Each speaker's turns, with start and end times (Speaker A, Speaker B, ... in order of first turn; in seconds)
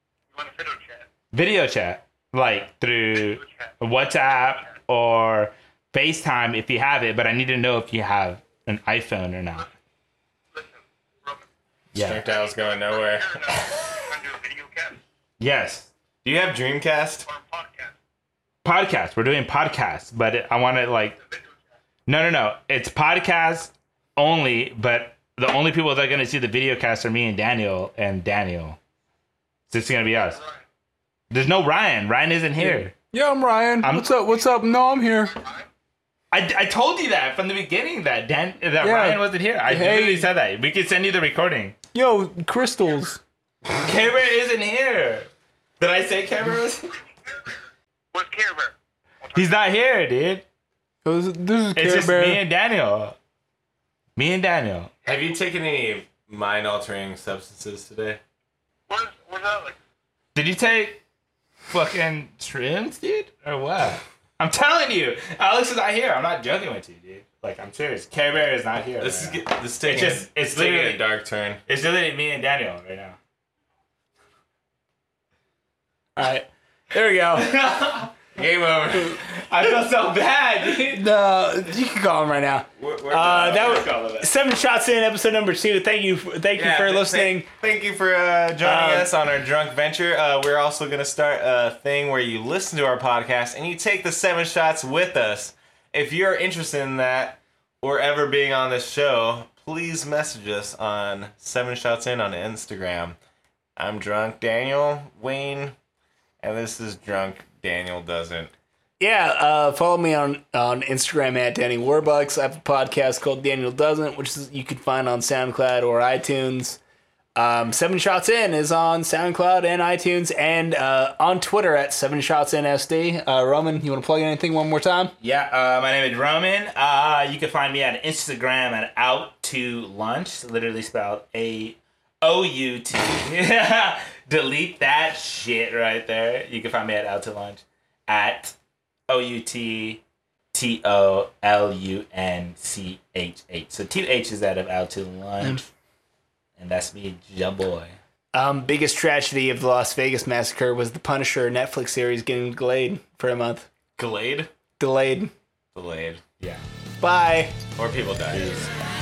Speaker A: 0.3-1.1, 10.5-11.4, 12.2-15.0, 17.2-17.9, 48.1-49.5, 58.9-59.8
Speaker B: 1.3-9.7, 11.9-12.2, 15.4-15.9, 18.6-21.2, 22.1-28.8, 29.7-30.4, 31.3-32.9, 33.8-34.1, 36.3-41.7, 43.8-45.3, 45.8-46.9, 49.3-50.4, 51.7-53.2, 54.1-54.9, 60.3-61.0, 61.7-71.1, 71.7-73.2, 77.4-78.1, 79.1-81.0, 83.3-84.3, 125.2-138.5, 139.1-140.0, 140.5-145.6, 146.6-148.0, 156.4-156.6
Speaker C: 11.9-13.7, 16.2-17.2, 55.0-58.2, 69.0-71.6, 78.3-79.2, 82.8-83.8, 86.5-103.2, 103.8-105.7, 106.4-108.5, 154.0-154.5, 155.7-156.2, 157.8-158.7
Speaker D: 32.6-35.4, 38.8-40.3, 41.9-43.2, 51.0-52.4, 76.2-77.6, 80.9-87.5, 88.6-89.1, 109.0-116.8, 117.3-125.1, 145.4-145.7, 148.3-153.7, 154.8-155.3, 157.0-157.5